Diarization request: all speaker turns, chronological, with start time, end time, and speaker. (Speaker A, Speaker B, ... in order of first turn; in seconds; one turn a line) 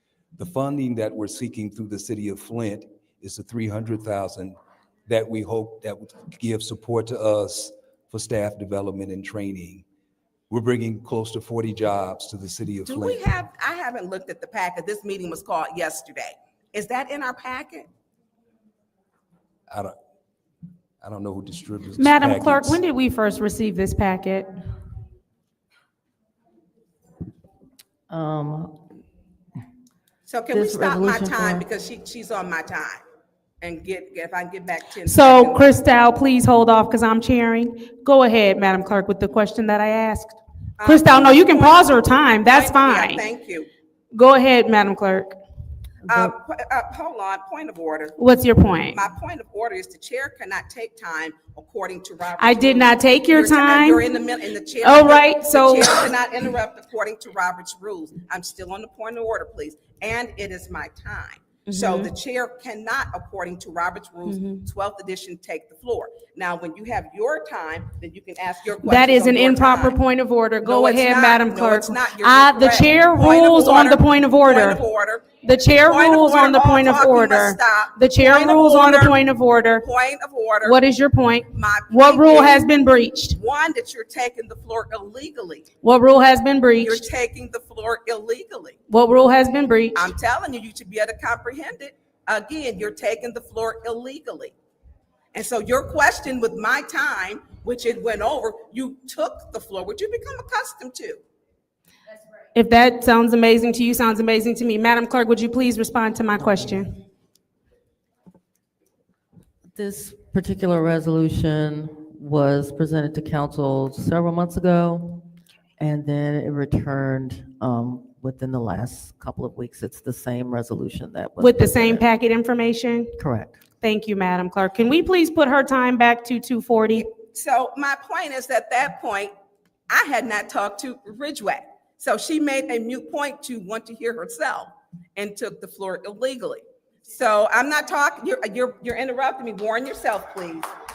Speaker A: 0.4-9.8
Speaker A: 10.5-13.3
Speaker B: 12.8-17.9
Speaker A: 19.7-19.9
Speaker A: 21.0-22.8
Speaker C: 22.0-24.5
Speaker D: 28.1-28.7
Speaker B: 30.3-33.0
Speaker D: 30.5-31.6
Speaker B: 33.6-35.7
Speaker C: 35.0-43.2
Speaker B: 40.8-43.7
Speaker C: 44.1-45.4
Speaker D: 46.1-46.3
Speaker B: 46.1-48.1
Speaker C: 48.2-49.0
Speaker B: 48.9-70.0
Speaker C: 52.4-54.0
Speaker C: 54.8-56.1
Speaker C: 61.7-62.1
Speaker C: 64.3-64.7
Speaker C: 68.8-74.8
Speaker B: 70.6-75.3
Speaker C: 75.4-79.8
Speaker B: 75.8-79.2
Speaker B: 79.8-80.8
Speaker C: 80.6-83.4
Speaker B: 81.5-82.6
Speaker B: 83.3-85.7
Speaker C: 85.8-87.0
Speaker B: 86.8-88.8
Speaker C: 88.9-90.1
Speaker B: 89.9-94.5
Speaker B: 95.3-101.2
Speaker C: 102.5-106.9
Speaker D: 109.7-115.2
Speaker D: 115.8-122.0
Speaker C: 121.4-123.1
Speaker D: 123.2-123.6
Speaker C: 123.8-127.0
Speaker B: 127.1-129.3
Speaker B: 129.9-140.7